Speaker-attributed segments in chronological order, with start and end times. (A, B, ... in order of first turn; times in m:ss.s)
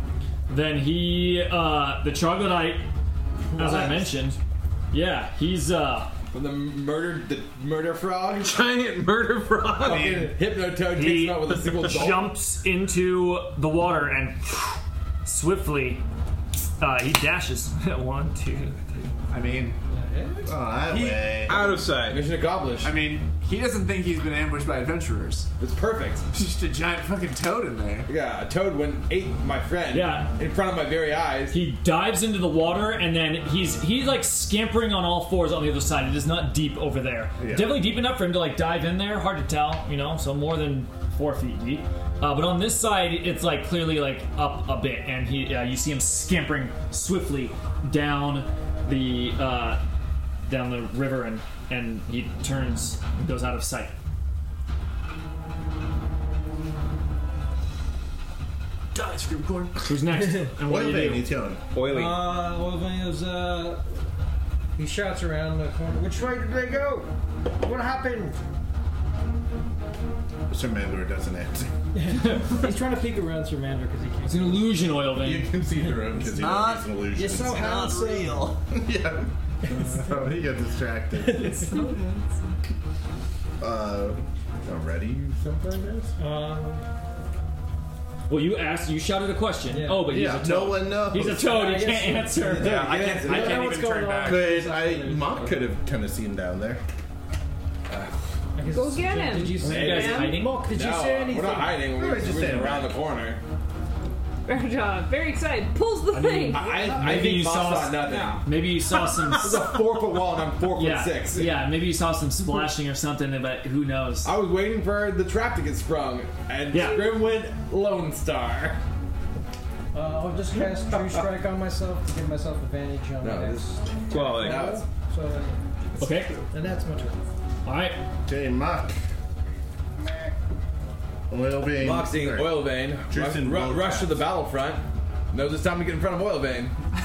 0:00.5-0:02.8 A
0:03.5-0:04.1 B
0:03.6-0:04.4 A
0:04.9-0:06.1 A
0:06.3-0:08.7 C
0:08.4-0:10.1 D
0:09.7-0:12.3 C
0:10.8-0:16.0 A
0:16.8-0:19.1 A
0:19.3-0:19.8 E
0:19.9-0:20.4 F
0:20.4-0:21.8 B
0:20.9-0:21.4 E
0:21.4-0:22.2 D
0:21.5-0:23.0 C
0:22.8-0:25.5 E
0:25.6-0:26.2 C
0:26.3-0:28.1 E
0:28.0-0:31.6 C
0:29.9-0:30.3 A
0:31.5-0:49.8 A
0:37.4-0:37.9 B
0:50.4-0:53.9 A
0:58.9-0:59.9 E
0:59.8-1:01.3 A
1:00.2-1:00.5 F
1:00.6-1:01.6 B
1:01.7-1:02.3 D
1:01.8-1:03.8 F
1:04.8-1:08.4 F
1:10.5-1:11.7 B
1:11.9-1:14.9 F
1:14.2-1:15.5 A
1:15.2-1:17.6 B
1:16.3-1:18.6 E
1:17.1-1:18.5 F
1:18.7-1:21.7 B
1:19.6-1:20.3 F
1:21.2-1:22.0 F
1:23.6-1:26.1 B
1:26.2-1:26.8 F
1:28.3-1:32.8 A
1:29.7-1:30.2 F
1:30.1-1:31.7 B
1:31.3-1:35.8 F
1:32.4-1:32.9 B
1:32.6-1:33.7 C
1:32.6-1:34.5 E
1:34.2-1:36.8 B
1:37.9-1:38.2 C
1:38.5-1:41.9 F
1:38.7-1:40.4 G
1:39.6-1:40.6 A
1:39.6-1:43.4 C
1:41.9-1:42.9 B
1:44.4-1:46.7 G
1:46.1-1:46.6 E
1:46.5-1:48.5 C
1:46.8-1:49.7 A
1:49.2-1:51.6 C
1:50.7-1:54.3 A
1:54.2-1:58.8 C
1:56.7-1:57.0 A
1:56.7-1:57.2 G
1:59.9-2:05.6 F
2:00.6-2:01.2 C
2:03.2-2:04.8 C
2:04.1-2:04.7 D
2:06.0-2:06.4 A
2:06.5-2:07.2 F
2:07.6-2:08.0 A
2:08.2-2:09.0 B
2:11.3-2:14.3 B
2:11.8-2:16.8 C